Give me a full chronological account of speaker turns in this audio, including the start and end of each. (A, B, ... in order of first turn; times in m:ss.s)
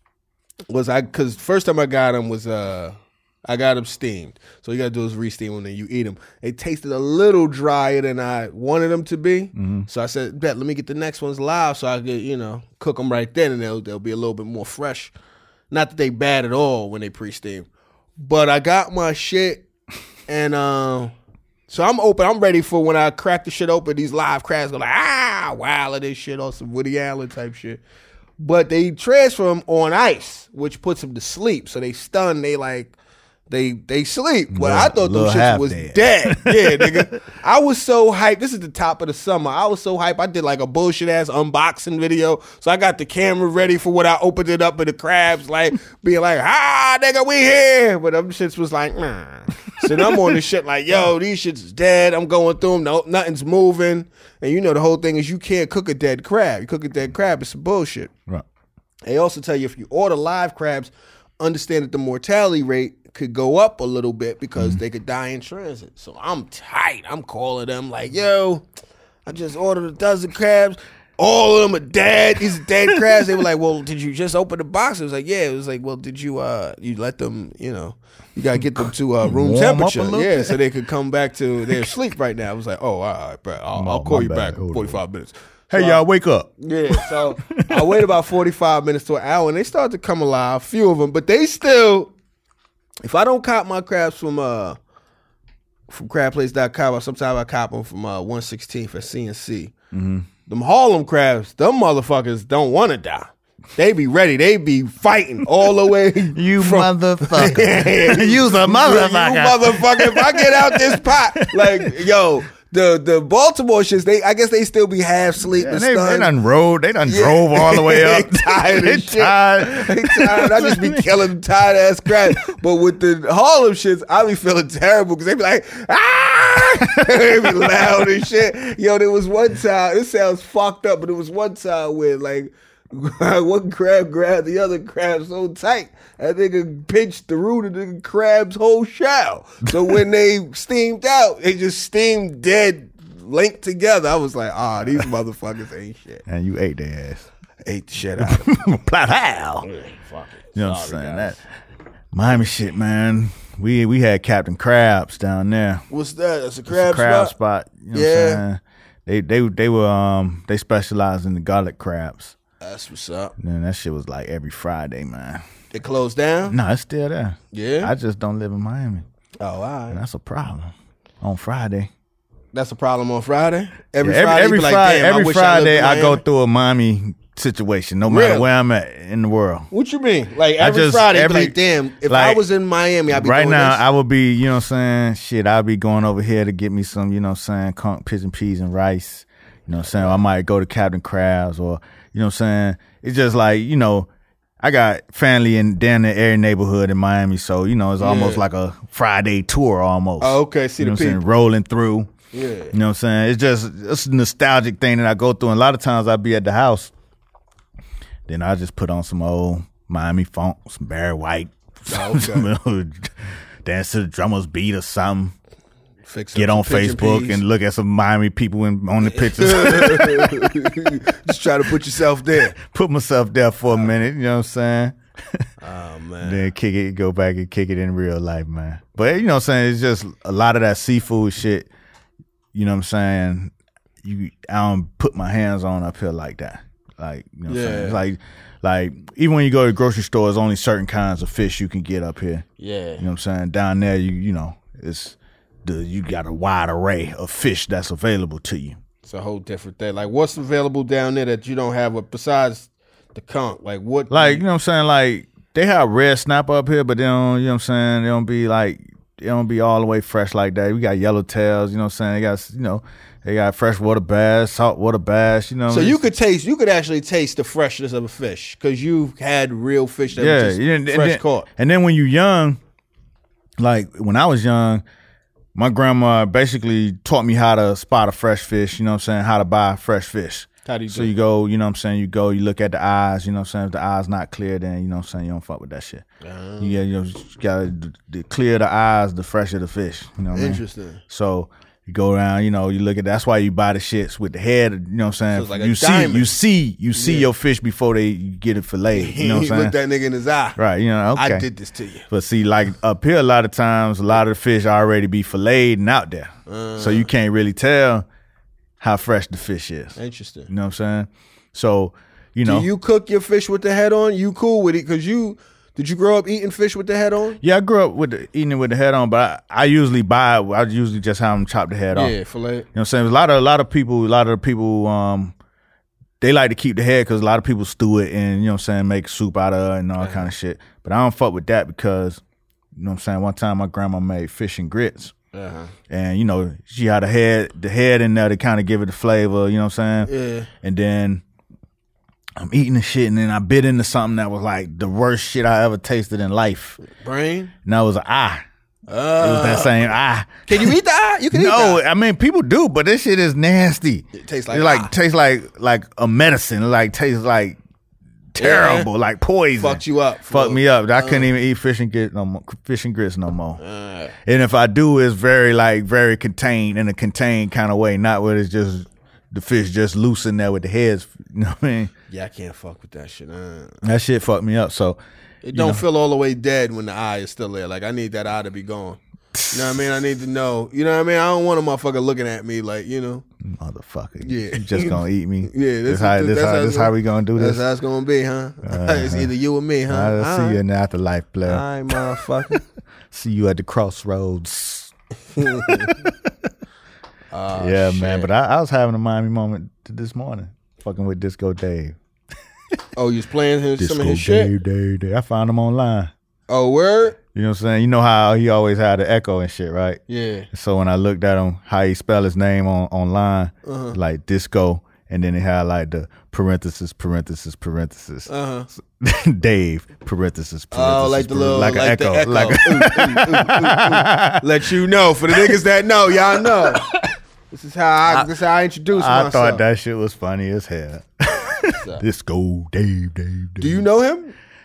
0:00.7-0:15.1 A
0:09.6-0:09.9 B
0:15.7-0:17.7 A
0:18.2-0:19.6 A
0:20.3-0:21.1 A
0:21.7-0:27.8 A
0:28.4-0:32.9 A
0:33.5-0:58.1 A
0:34.5-0:37.1 B
0:49.8-0:50.3 B
0:59.0-1:08.6 A
1:09.2-1:26.0 A
1:18.8-1:20.6 B
1:23.7-1:25.0 B
1:25.7-1:28.0 B
1:26.6-1:32.1 A
1:33.0-1:34.8 A
1:35.9-1:39.7 A
1:39.9-1:40.3 B
1:40.5-1:56.3 A
1:46.3-1:51.9 B
1:55.5-2:01.0 B
1:57.0-2:26.2 A
2:26.3-2:27.3 B
2:27.6-2:28.5 A
2:28.2-2:29.7 B
2:29.6-2:31.4 A
2:30.5-2:31.4 B
2:32.1-2:35.8 B
2:35.9-2:37.3 A
2:36.7-2:42.3 B
2:37.9-2:38.4 A
2:42.6-2:43.3 A
2:43.4-2:45.4 B
2:45.7-2:46.6 A
2:46.5-2:49.0 B
2:47.5-2:47.9 A
2:49.4-2:50.0 A
2:49.9-2:51.9 B
2:52.5-2:56.2 A
2:54.0-2:59.7 B
2:58.0-2:58.5 A
2:59.7-3:03.8 A
3:00.6-3:02.4 B
3:03.1-3:14.1 B
3:09.8-3:10.2 A
3:14.6-3:22.1 B
3:18.0-3:18.4 A
3:20.2-3:21.2 A
3:22.3-3:22.7 A
3:22.7-3:26.9 B
3:28.3-3:33.1 B
3:31.9-3:32.5 A
3:33.6-3:35.3 B
3:36.0-3:37.4 A
3:36.3-3:40.7 B
3:39.0-3:42.6 A
3:42.6-3:45.4 B
3:45.6-3:46.5 A
3:46.2-3:51.7 B
3:52.5-3:53.5 B
3:54.0-4:02.4 B
3:57.5-3:58.0 A
4:02.6-4:03.0 A
4:03.0-4:08.8 B
4:09.0-4:14.4 A
4:14.1-4:26.0 B
4:25.7-4:31.4 A
4:30.2-4:32.6 B
4:33.6-4:34.8 B
4:35.5-4:46.0 B
4:40.6-4:41.1 A
4:46.2-4:46.8 A
4:46.6-4:59.7 B
4:50.3-4:51.0 A
4:55.3-4:56.3 A
4:56.9-4:57.3 A
4:58.9-5:00.6 A
5:00.6-5:01.4 B
5:01.1-5:02.1 A
5:02.1-5:08.0 B
5:06.5-5:07.1 A
5:08.8-5:10.0 B
5:10.0-5:10.5 A
5:10.5-5:12.7 B
5:12.4-5:17.4 A
5:17.4-5:22.2 B
5:21.9-5:22.6 A
5:22.7-5:25.3 B
5:26.2-5:32.2 B
5:30.0-5:30.3 A
5:32.8-5:35.1 B
5:35.3-5:35.7 A
5:35.9-5:41.2 B
5:40.0-5:40.5 A
5:42.4-5:46.8 B
5:46.8-5:47.5 A
5:47.6-5:48.4 B
5:48.9-5:49.9 A
5:49.2-5:50.7 B
5:50.5-5:51.8 A
5:51.3-5:57.6 B
5:54.1-5:54.9 A
5:58.3-6:03.6 B
5:58.4-5:58.9 A
5:59.6-6:01.3 A
6:03.6-6:04.1 A
6:04.2-6:11.9 B
6:12.1-6:13.8 A
6:13.8-6:15.0 B
6:15.4-6:19.0 A
6:15.5-6:15.8 B
6:19.4-6:19.8 B
6:19.5-6:23.2 A
6:23.4-6:27.6 B
6:24.2-6:30.6 A
6:28.6-6:29.3 B
6:29.9-6:32.0 B
6:31.4-6:32.6 A
6:33.1-6:34.9 B
6:35.3-6:36.0 A
6:35.7-6:36.1 B
6:37.3-6:38.3 A
6:37.5-6:42.0 B
6:43.0-6:44.5 A
6:43.8-6:46.1 B
6:46.5-6:47.2 A
6:47.3-7:04.4 B
6:50.1-6:50.5 A
6:53.6-6:54.0 A
6:58.3-6:58.7 A
7:00.7-7:06.9 A
7:06.4-7:07.0 B
7:07.5-7:09.6 A
7:08.1-7:08.3 B
7:08.9-7:13.8 B
7:11.7-7:12.0 A
7:13.6-7:14.3 A